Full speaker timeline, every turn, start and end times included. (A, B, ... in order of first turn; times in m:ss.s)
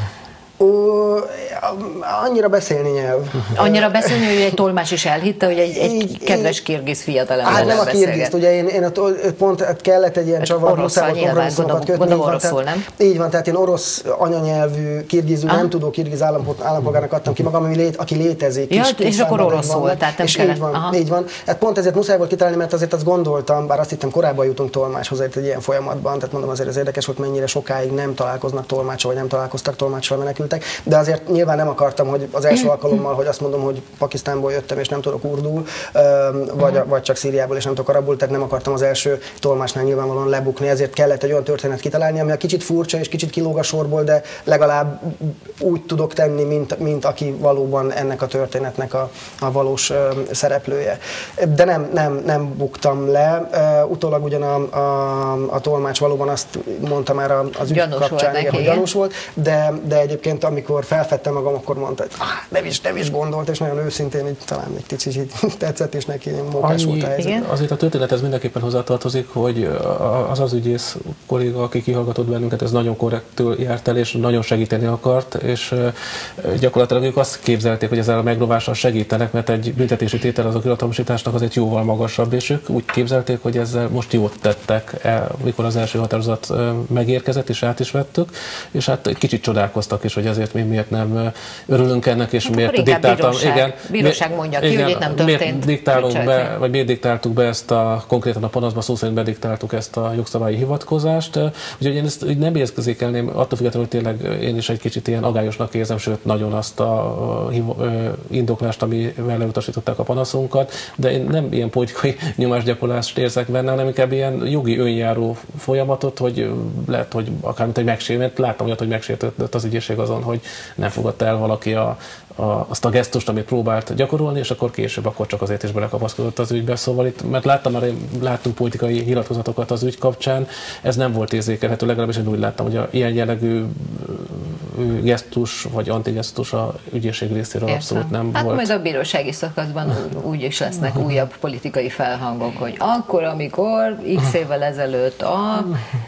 0:00.6-0:04.2 A
0:03.5-0:08.3 B
0:05.8-0:06.5 A
0:07.4-1:07.4 A
0:10.4-0:12.9 B
0:18.7-0:21.0 B
0:57.7-0:58.8 B
1:06.6-2:18.7 C
1:32.4-1:36.5 B
2:17.7-2:25.8 B